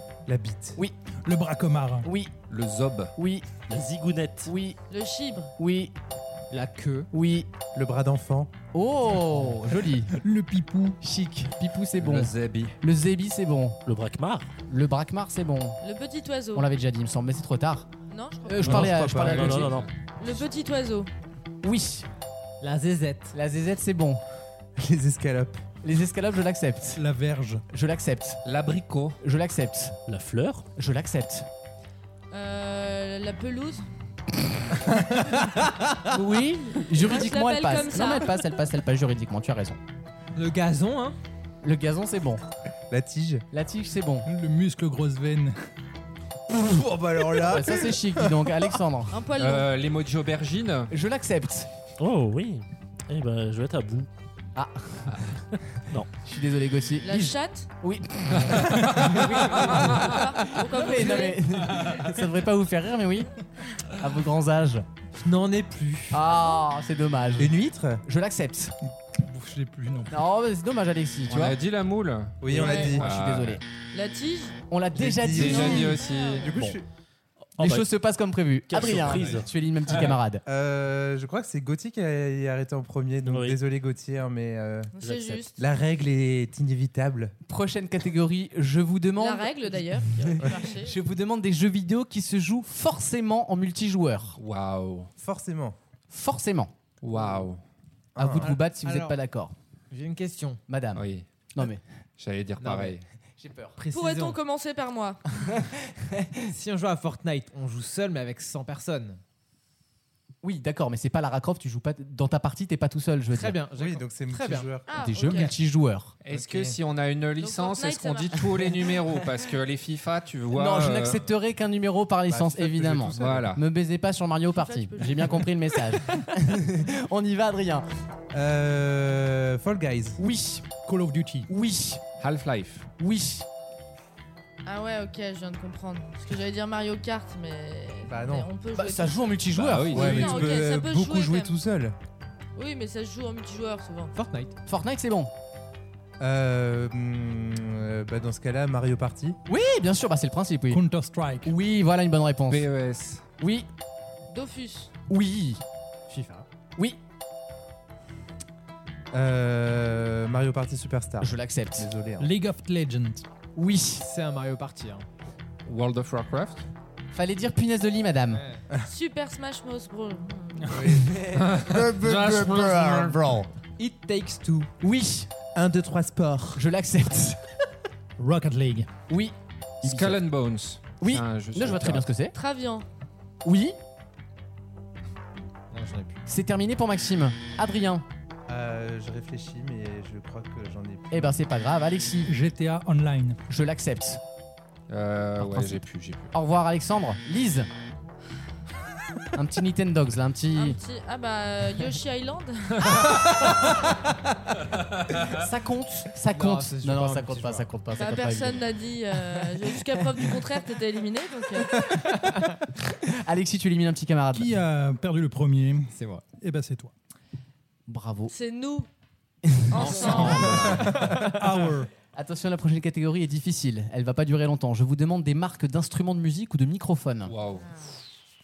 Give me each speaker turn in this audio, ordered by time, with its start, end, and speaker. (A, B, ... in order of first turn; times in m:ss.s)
0:00.3-0:00.8 A
0:01.2-0:02.1 B
0:02.0-0:02.3 C
0:02.5-0:03.1 D
0:03.2-0:03.5 C
0:03.7-0:04.5 E
0:04.4-0:04.8 C
0:04.9-0:05.5 F
0:05.6-0:05.9 C
0:06.5-0:07.1 G
0:07.1-0:07.5 C
0:07.7-0:08.5 A
0:08.7-0:10.1 C
0:10.1-0:11.0 B
0:11.0-0:13.8 C
0:12.0-0:12.8 D
0:13.9-0:14.5 E
0:14.7-0:15.8 C
0:15.8-0:16.7 F
0:16.6-0:17.9 C
0:18.1-0:18.8 F
0:18.5-0:19.8 C
0:18.6-0:19.7 A
0:18.6-0:19.9 E
0:19.6-0:19.9 D
0:20.2-0:21.1 F
0:21.6-0:22.1 C
0:22.6-0:23.4 G
0:23.3-0:24.2 C
0:24.8-0:25.6 A
0:25.8-0:27.0 C
0:27.0-0:27.6 B
0:27.7-0:28.4 C
0:28.4-0:29.2 D
0:29.2-0:30.0 C
0:30.1-0:30.7 E
0:30.7-0:31.5 C
0:32.3-0:33.8 F
0:36.0-0:39.8 C
0:37.0-0:38.3 F
0:40.4-0:41.2 G
0:41.6-0:42.4 C
0:42.9-0:43.4 A
0:43.5-0:44.3 C
0:44.3-0:45.6 B
0:46.5-0:48.7 A
0:47.4-0:49.2 C
0:49.1-0:49.7 F
0:49.4-0:50.9 D
0:50.9-0:51.7 C
0:52.0-0:54.1 E
0:54.6-0:55.2 C
0:56.2-1:03.3 C
0:57.0-0:57.7 F
0:59.6-1:00.0 D
0:59.8-1:01.4 F
1:03.9-1:04.8 C
1:05.2-1:06.2 G
1:06.1-1:08.7 C
1:06.3-1:06.6 F
1:07.4-1:08.0 A
1:09.2-1:10.2 B
1:10.1-1:11.6 C
1:11.3-1:13.6 D
1:12.4-1:13.1 A
1:12.5-1:13.6 C
1:12.6-1:13.0 F
1:13.9-1:14.6 F
1:14.7-1:16.0 C
1:14.9-1:16.8 A
1:15.2-1:16.5 D
1:15.5-1:16.4 F
1:17.6-1:17.9 E
1:17.6-1:20.4 C
1:18.7-1:20.1 E
1:20.4-1:24.9 A
1:23.3-1:23.6 E
1:25.0-1:25.6 F
1:25.0-1:25.4 E
1:25.6-1:27.3 A
1:27.5-1:34.4 C
1:29.2-1:31.0 F
1:34.4-1:35.1 D
1:35.2-1:35.8 A
1:36.1-1:36.7 C
1:37.0-1:37.6 D
1:38.2-1:38.6 A
1:38.2-1:39.5 C
1:38.4-1:39.2 G
1:39.9-1:40.6 G
1:40.7-1:41.0 C
1:41.0-1:41.3 D
1:41.6-1:41.8 C
1:42.2-1:43.0 D
1:42.6-1:43.0 G
1:43.4-1:43.8 C
1:43.8-1:44.4 G
1:43.9-1:45.2 F
1:45.6-1:46.4 C
1:46.5-1:49.2 G
1:50.4-1:53.6 C
1:53.3-1:54.7 G
1:53.8-1:55.4 A
1:54.9-1:55.5 F
1:54.9-1:56.2 C
1:56.2-2:01.2 D
1:56.3-1:56.7 A
1:57.4-1:58.4 F
2:00.5-2:07.9 C
2:02.3-2:03.5 A
2:03.2-2:03.6 D
2:04.6-2:05.4 F
2:08.3-2:10.2 A
2:10.2-2:10.7 C
2:10.8-2:11.5 B
2:11.5-2:12.0 C
2:12.2-2:12.9 D
2:13.0-2:13.4 C
2:14.7-2:19.3 F
2:18.1-2:18.5 A
2:18.7-2:20.6 C
2:19.5-2:20.5 D
2:19.9-2:21.6 F
2:19.9-2:22.0 A
2:22.6-2:24.1 F
2:24.1-2:24.6 G
2:24.7-2:25.3 C
2:26.2-2:29.4 A
2:29.5-2:30.8 C
2:30.7-2:31.5 B
2:31.4-2:32.7 C
2:32.5-2:33.2 D
2:33.4-2:33.7 C
2:34.3-2:34.9 F
2:35.1-2:35.6 C
2:36.1-2:36.4 G
2:39.1-2:42.3 A
2:41.2-2:41.9 C
2:42.2-2:43.2 B
2:43.6-2:44.1 C
2:44.0-2:45.0 G
2:45.7-2:46.7 D
2:47.1-2:48.4 C
2:48.3-2:48.6 G
2:48.8-2:50.8 F
2:50.7-2:51.0 B
2:50.7-2:53.2 A
2:51.3-2:53.3 D
2:52.9-2:53.4 C
2:53.8-2:54.7 G
2:54.8-2:55.3 C
2:55.6-2:56.7 A
2:56.6-2:57.4 C
2:58.2-2:58.9 B
2:59.1-3:00.2 C
2:59.8-3:02.1 D
3:01.0-3:02.4 C
3:02.3-3:02.9 F
3:03.4-3:03.8 C
3:05.7-3:06.2 G
3:06.3-3:08.0 C
3:08.5-3:11.4 A
3:11.1-3:12.3 C
3:12.3-3:13.4 B
3:13.5-3:14.2 C
3:14.9-3:16.3 D
3:15.4-3:17.7 C
3:19.4-3:20.8 C
3:20.6-3:23.2 F
3:23.0-3:23.8 C
3:25.2-3:28.7 C
3:26.3-3:27.7 G
3:28.0-3:31.8 F
3:29.3-3:30.3 C
3:31.7-3:34.5 C
3:34.3-3:36.9 B
3:35.9-3:36.2 G
3:37.9-3:38.3 C
3:38.3-3:38.9 F
3:39.4-3:40.5 C
3:39.7-3:40.6 F
3:39.7-3:40.9 D
3:40.5-3:41.9 B
3:41.0-3:41.4 G
3:42.1-3:47.3 C
3:47.3-3:47.7 D